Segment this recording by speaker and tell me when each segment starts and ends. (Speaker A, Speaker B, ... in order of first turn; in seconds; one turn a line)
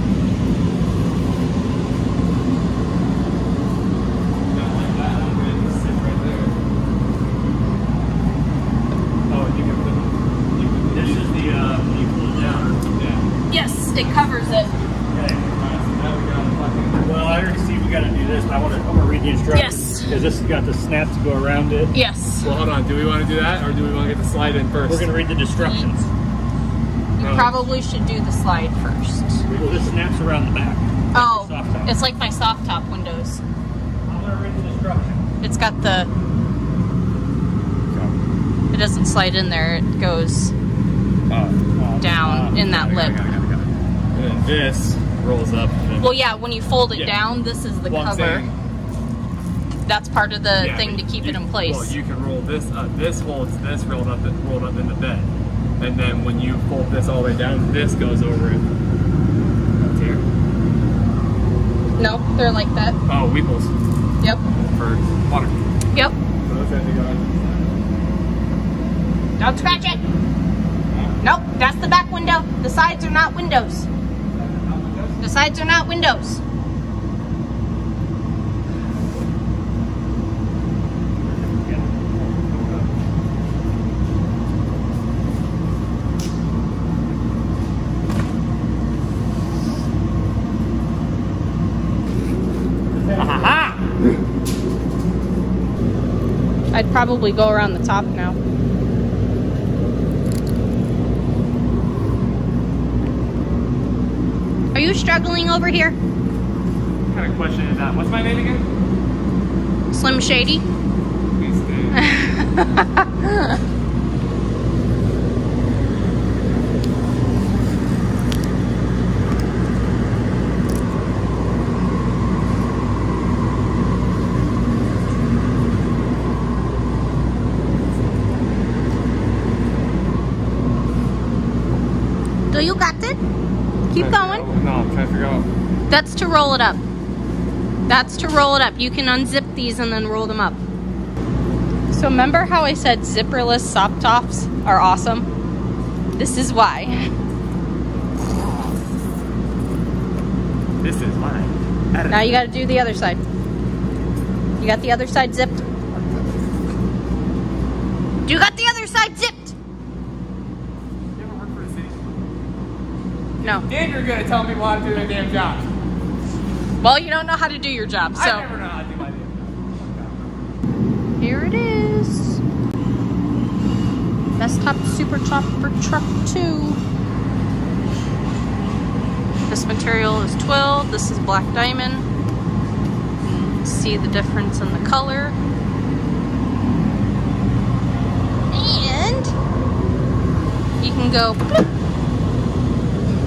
Speaker A: 4.5-6.6
Speaker A: 9.3-11.6
Speaker B: 10.9-12.8
Speaker A: 12.9-13.2
Speaker C: 13.5-14.7
Speaker B: 15.1-15.5
Speaker A: 15.5-17.1
Speaker B: 17.0-21.9
Speaker C: 19.5-20.2
Speaker C: 21.9-22.5
Speaker A: 22.4-25.1
Speaker B: 24.8-26.1
Speaker C: 27.2-29.4
Speaker A: 27.2-27.6
Speaker B: 29.4-31.9
Speaker C: 31.1-33.4
Speaker B: 34.0-35.2
Speaker C: 35.4-36.1
Speaker A: 37.9-38.2
Speaker C: 38.7-40.5
Speaker A: 41.3-41.6
Speaker B: 41.8-43.1
Speaker C: 42.0-43.2
Speaker A: 42.7-46.2
Speaker C: 46.0-48.5
Speaker A: 46.9-47.2
Speaker A: 47.9-48.5
Speaker C: 49.8-51.9
Speaker A: 50.6-58.6
Speaker A: 59.8-60.2
Speaker C: 62.0-63.0
Speaker A: 63.1-63.7
Speaker A: 64.5-65.6
Speaker A: 66.4-67.7
Speaker C: 69.4-70.0
Speaker A: 70.9-71.2
Speaker C: 71.2-73.9
Speaker A: 74.3-75.2
Speaker C: 75.2-76.4
Speaker B: 81.2-82.6
Speaker A: 82.5-82.9
Speaker B: 92.9-93.9
Speaker C: 96.7-98.4
Speaker C: 104.7-106.0
Speaker A: 107.1-108.7
Speaker C: 109.9-110.6
Speaker A: 111.4-112.0
Speaker C: 111.9-113.5
Speaker C: 132.5-133.2
Speaker C: 133.9-134.5
Speaker A: 133.9-135.5
Speaker C: 135.9-136.8
Speaker C: 137.9-140.6
Speaker C: 141.9-145.3
Speaker C: 146.1-147.1
Speaker A: 150.8-152.1
Speaker C: 152.1-153.2
Speaker C: 154.6-155.7
Speaker C: 158.2-159.5
Speaker A: 161.2-162.0
Speaker C: 163.4-163.7
Speaker A: 163.4-165.7
Speaker C: 166.8-168.5
Speaker A: 168.1-170.5
Speaker C: 171.2-172.4
Speaker C: 174.4-176.8
Speaker C: 179.5-182.0
Speaker C: 183.2-185.3
Speaker C: 188.5-189.3
Speaker C: 190.8-191.6